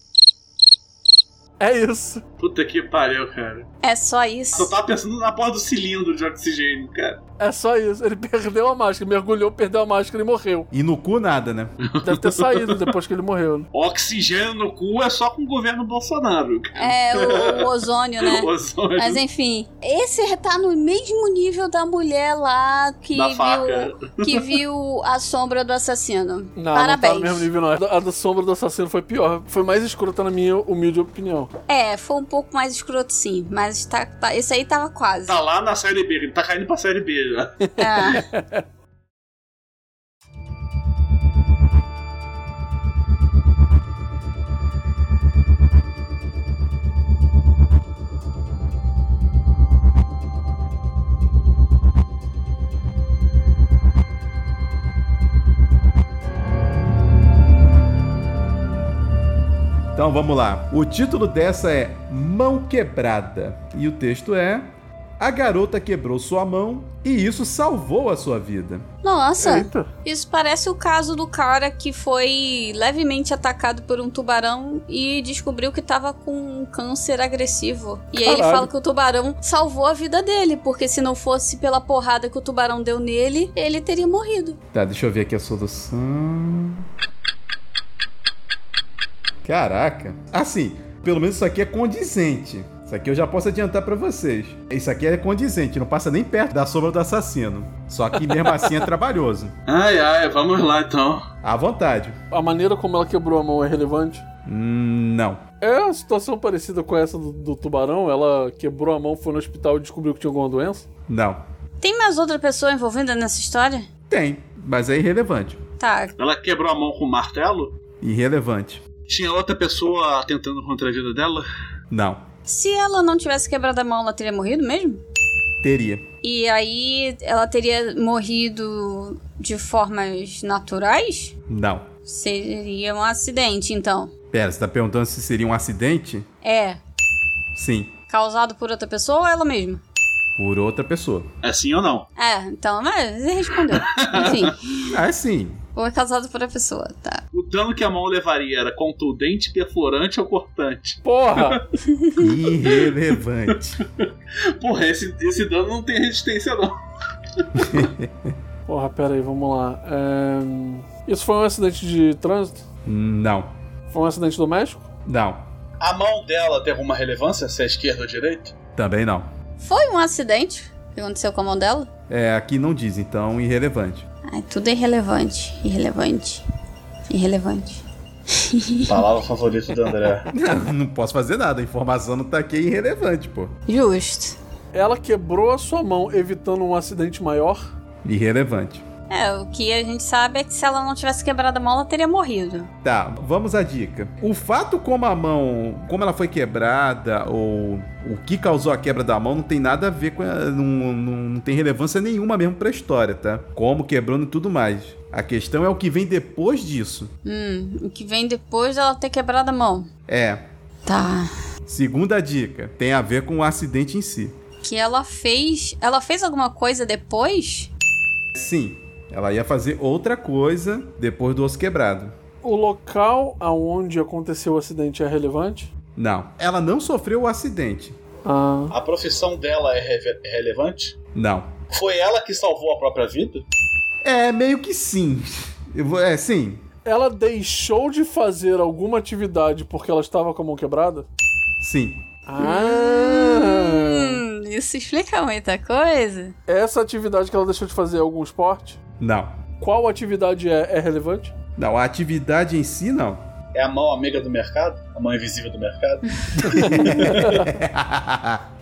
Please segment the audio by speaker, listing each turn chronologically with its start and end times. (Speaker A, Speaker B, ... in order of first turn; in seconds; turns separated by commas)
Speaker A: 1.6-2.2, Speaker B: 2.4-3.7, Speaker C: 3.8-4.7, Speaker B: 4.5-7.2, Speaker A: 7.4-10.7, Speaker D: 10.7-11.7, Speaker B: 11.9-12.8, Speaker A: 12.0-13.7, Speaker B: 13.7-17.7, Speaker C: 16.8-27.5, Speaker B: 18.2-19.2, Speaker B: 23.1-24.5, Speaker A: 26.6-31.5, Speaker C: 31.7-35.4, Speaker B: 35.3-37.6, Speaker C: 37.8-38.3, Speaker A: 37.8-38.6, Speaker D: 60.0-68.8, Speaker C: 69.0-84.6, Speaker A: 69.4-69.9, Speaker A: 78.3-78.7, Speaker D: 84.7-86.9, Speaker D: 89.4-99.5, Speaker B: 99.7-101.3, Speaker D: 101.4-102.2, Speaker A: 102.3-104.2, Speaker D: 104.5-105.4, Speaker A: 105.6-110.9, Speaker D: 111.1-111.4, Speaker C: 111.8-113.9, Speaker D: 114.1-115.6, Speaker C: 115.8-116.2, Speaker B: 116.2-117.8, Speaker D: 118.0-118.8, Speaker B: 119.1-121.5, Speaker D: 121.9-122.2, Speaker C: 122.5-125.0, Speaker D: 125.6-126.0, Speaker C: 126.2-131.3, Speaker D: 131.5-131.9, Speaker C: 132.1-134.1, Speaker D: 134.3-136.3, Speaker C: 136.4-136.8, Speaker D: 137.5-137.9, Speaker C: 138.1-139.8, Speaker D: 140.4-141.3, Speaker B: 141.4-142.1, Speaker C: 142.2-144.9, Speaker B: 143.7-144.5, Speaker D: 144.9-145.6, Speaker C: 145.8-147.2, Speaker B: 147.3-151.6, Speaker A: 151.1-151.6, Speaker D: 152.2-153.8, Speaker B: 152.7-152.9, Speaker B: 153.8-156.8, Speaker B: 157.4-157.8, Speaker D: 157.6-158.3, Speaker A: 158.7-162.6, Speaker D: 162.9-163.5, Speaker A: 163.9-164.9, Speaker D: 165.1-165.4, Speaker B: 165.8-168.5, Speaker D: 168.8-169.3, Speaker C: 169.6-171.9, Speaker D: 172.1-174.1, Speaker C: 174.3-176.4, Speaker C: 177.1-178.9, Speaker B: 178.8-180.3, Speaker D: 180.3-183.5, Speaker C: 183.7-184.4, Speaker A: 184.7-187.7, Speaker D: 188.0-188.8, Speaker C: 189.1-192.7, Speaker D: 192.8-207.1, Speaker C: 207.3-209.9, Speaker D: 210.1-210.4, Speaker C: 210.9-211.3, Speaker D: 211.7-214.4, Speaker C: 214.6-217.7, Speaker D: 218.3-222.1, Speaker A: 222.4-225.7, Speaker D: 226.0-228.0, Speaker A: 228.2-228.8, Speaker B: 228.7-231.0, Speaker D: 231.2-231.5, Speaker B: 231.7-233.4, Speaker D: 234.0-236.6, Speaker A: 236.8-241.1, Speaker D: 241.6-242.0, Speaker A: 242.3-244.2, Speaker C: 242.4-246.3, Speaker A: 246.5-248.8, Speaker D: 249.0-249.3, Speaker A: 249.6-251.3, Speaker D: 251.6-253.2, Speaker B: 253.5-257.5, Speaker A: 256.5-257.5, Speaker D: 256.5-258.4